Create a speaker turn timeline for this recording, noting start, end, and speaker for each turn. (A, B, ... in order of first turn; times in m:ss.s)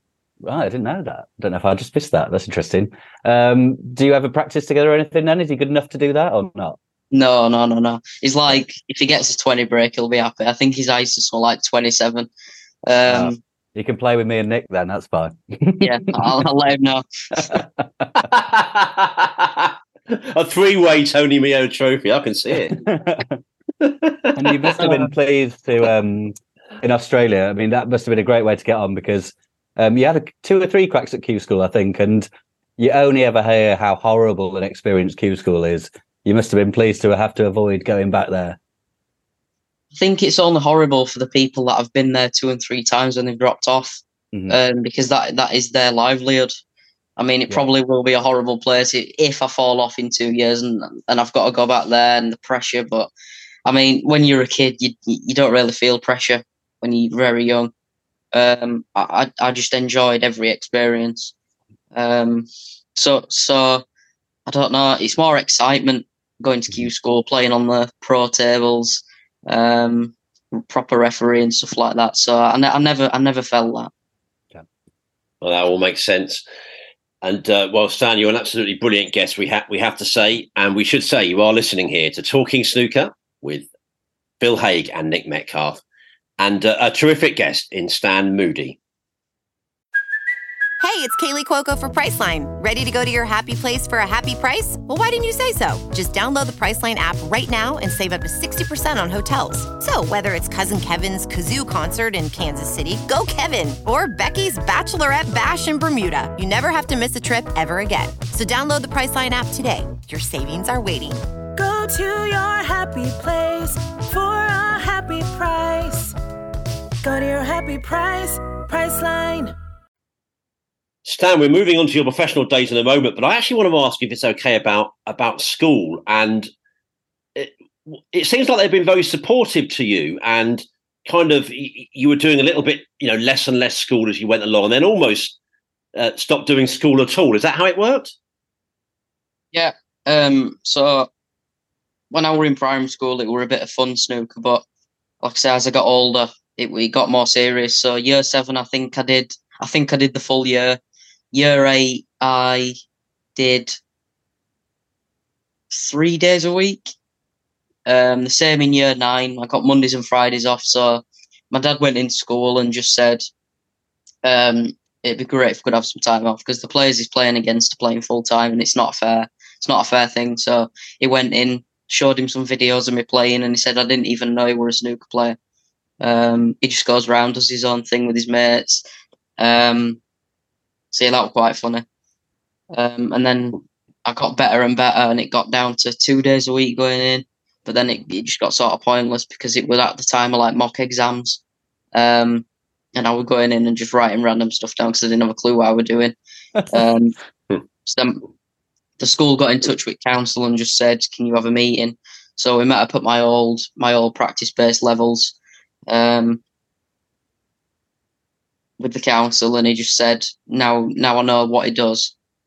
0:00.4-0:06.8 A
0:07.1-0:12.3 B
0:12.9-0:13.4 B
0:13.1-0:16.5 A
0:15.8-0:17.6 B
0:17.4-0:18.2 A
0:18.2-0:22.8 C
0:22.7-0:23.4 A
0:23.8-0:24.6 C
0:24.4-0:38.6 A
0:24.8-0:25.1 B
0:39.9-0:46.5 B
0:44.3-0:44.6 A
0:47.2-0:53.1 B
0:53.6-0:57.7 B
0:58.3-1:01.3 B
1:01.9-1:03.8 B
1:04.5-1:13.9 B
1:15.4-1:16.4 C
1:17.2-1:23.7 C
1:24.4-1:25.8 C
1:26.4-1:28.8 C
1:30.8-1:51.2 D
1:51.6-1:56.1 E
1:57.0-1:59.5 E
2:01.0-2:06.5 C
2:07.4-2:15.3 C
2:16.0-2:18.1 C
2:19.5-2:21.1 B
2:22.1-2:24.6 B
2:25.2-2:30.8 B
2:31.3-2:32.8 B
2:33.4-2:33.8 B
2:35.7-2:36.9 B
2:37.8-2:43.3 B
2:44.2-2:55.4 B
2:56.0-2:58.8 B
2:59.4-3:00.0 B
3:00.9-3:01.8 B
3:02.7-3:11.4 B
3:11.9-3:12.4 B
3:13.0-3:16.2 B
3:16.7-3:17.1 B
3:17.8-3:18.2 B
3:19.0-3:25.3 B
3:25.9-3:26.4 B
3:28.8-3:32.1 B